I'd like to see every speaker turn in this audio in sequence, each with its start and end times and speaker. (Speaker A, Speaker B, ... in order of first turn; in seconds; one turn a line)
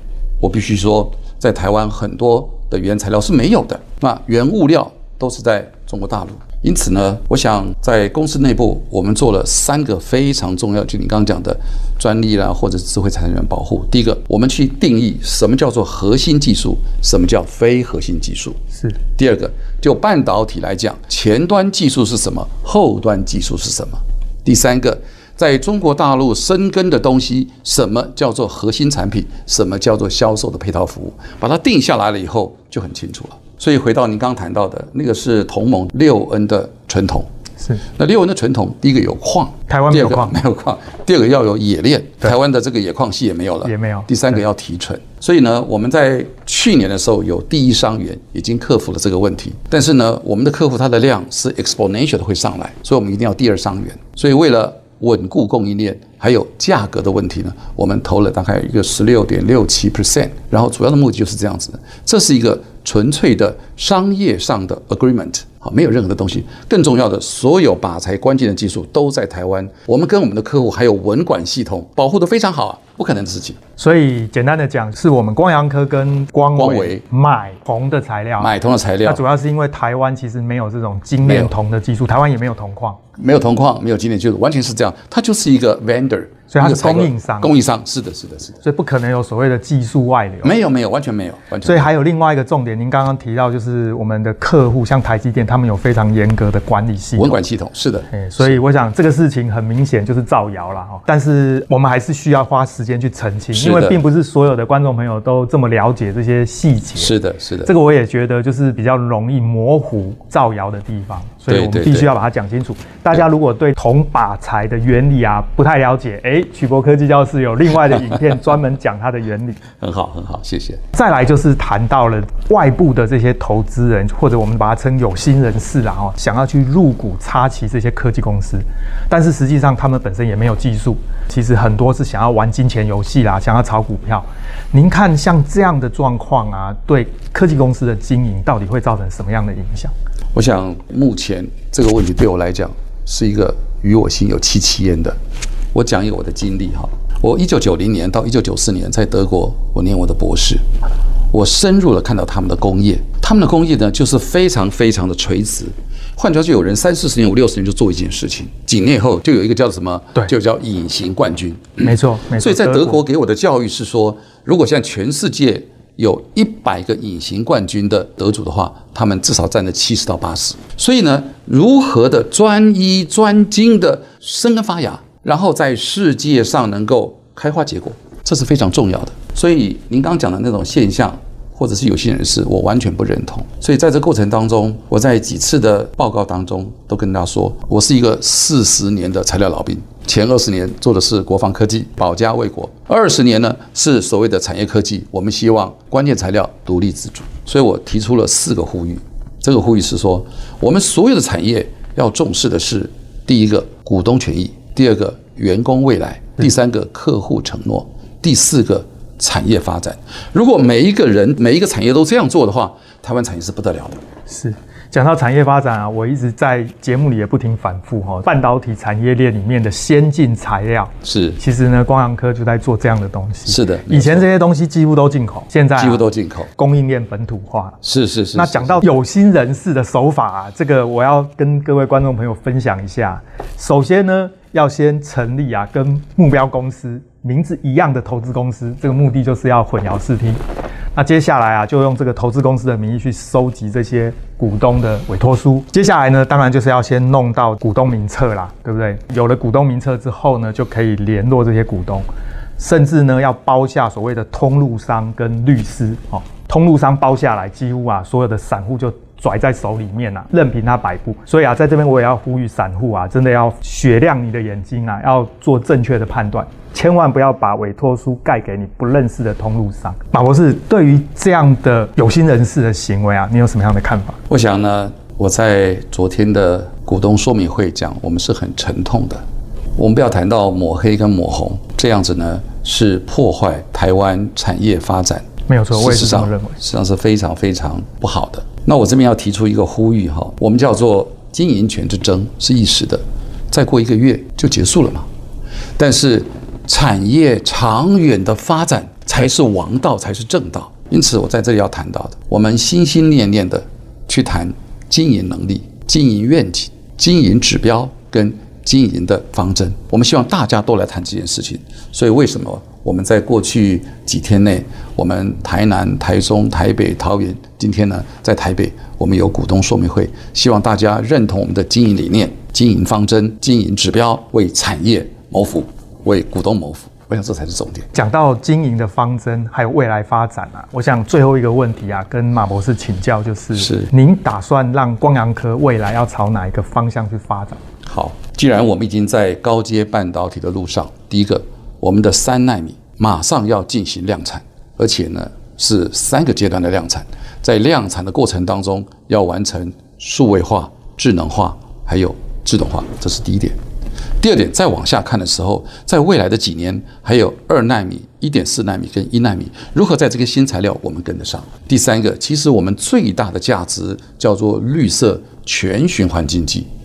Speaker A: 0.4-18.6
Speaker A: 19.2-37.3
Speaker A: 38.0-73.6
Speaker B: 39.7-40.4
Speaker B: 43.6-44.1
Speaker B: 73.8-78.5
Speaker A: 76.5-77.0
Speaker A: 78.4-79.2
Speaker B: 79.0-83.0
Speaker A: 81.2-81.5
Speaker A: 83.2-88.6
Speaker B: 86.5-87.5
Speaker B: 88.6-90.5
Speaker A: 90.4-91.9
Speaker B: 91.6-97.3
Speaker A: 97.2-98.6
Speaker B: 98.1-119.6
Speaker A: 103.5-104.0
Speaker A: 107.0-107.7
Speaker A: 111.5-112.1
Speaker A: 119.8-120.8
Speaker B: 120.9-139.9
Speaker A: 140.3-145.2
Speaker A: 145.7-150.6
Speaker A: 151.3-214.0
Speaker B: 161.8-163.0
Speaker B: 214.3-227.8
Speaker A: 221.0-221.4
Speaker A: 223.5-224.2
Speaker A: 225.8-226.5
Speaker A: 227.8-228.8
Speaker B: 228.3-240.4
Speaker B: 240.9-252.1
Speaker B: 252.6-274.2
Speaker A: 274.3-279.2
Speaker A: 279.8-295.1
Speaker B: 285.5-286.6
Speaker A: 295.8-327.9
Speaker B: 327.9-337.6
Speaker A: 333.6-333.9
Speaker A: 337.9-353.6
Speaker A: 354.2-366.7